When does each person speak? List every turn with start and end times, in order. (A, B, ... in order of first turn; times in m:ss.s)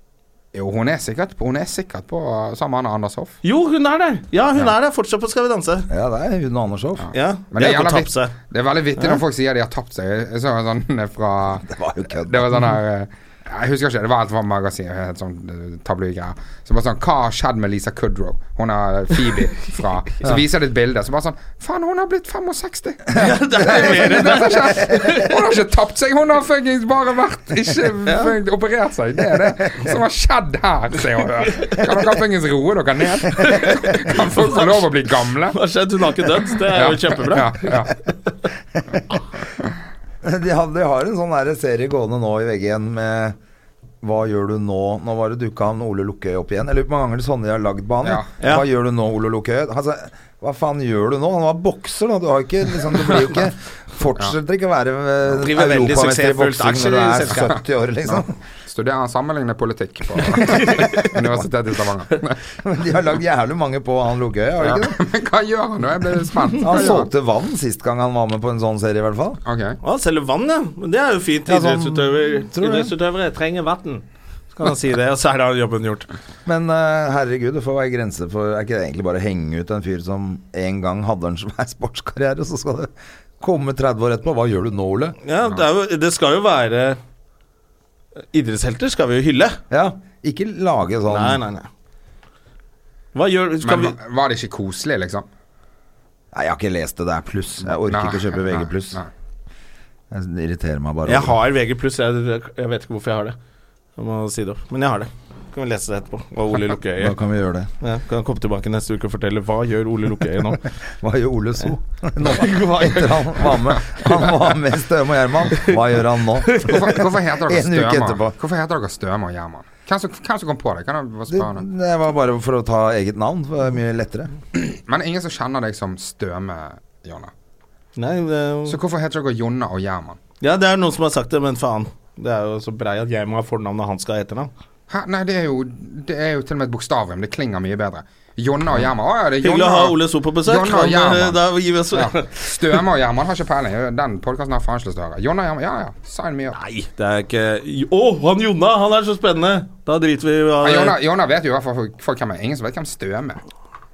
0:00.5-0:03.4 A
0:03.4-0:05.9 B
0:05.9-0:07.1 C
0:07.0-0:35.6 A
0:07.1-0:08.3 B
0:11.6-0:12.6 C
0:23.1-0:25.1 C
0:23.1-0:25.3 B
0:28.0-0:28.3 B
0:31.5-0:31.8 B
0:33.3-0:34.6 B
0:35.5-0:37.8 B
0:36.7-0:38.0 A
0:40.2-0:43.4 C
0:44.0-0:58.3 C
0:48.0-0:48.3 A
0:48.4-0:48.6 B
0:55.4-0:57.5 B
0:58.1-1:02.4 A
1:00.2-1:01.1 B
1:02.6-1:05.0 C
1:04.7-1:07.1 A
1:06.6-1:09.4 C
1:09.5-1:09.8 A
1:09.8-1:16.1 B
1:11.5-1:12.9 C
1:16.4-1:25.2 C
1:25.2-1:27.0 B
1:28.3-1:29.6 B
1:29.7-1:31.4 C
1:31.1-1:31.7 B
1:33.1-1:34.0 B
1:33.6-1:35.3 A
1:36.3-1:39.0 C
1:37.8-1:39.1 A
1:40.1-1:41.4 C
1:41.1-1:43.4 B
1:44.0-1:47.2 B
1:47.0-1:47.7 C
1:47.8-1:50.6 B
1:51.0-1:56.7 C
1:52.2-1:53.5 B
1:55.5-1:55.8 B
1:56.4-1:57.0 B
1:56.6-2:01.6 A
1:57.5-1:58.4 C
2:01.3-2:04.3 C
2:04.5-2:07.3 A
2:08.0-2:08.8 B
2:08.7-2:10.2 A
2:10.4-2:14.5 B
2:14.9-2:26.6 A
2:19.4-2:22.8 B
2:26.6-2:31.0 B
2:30.6-2:33.4 A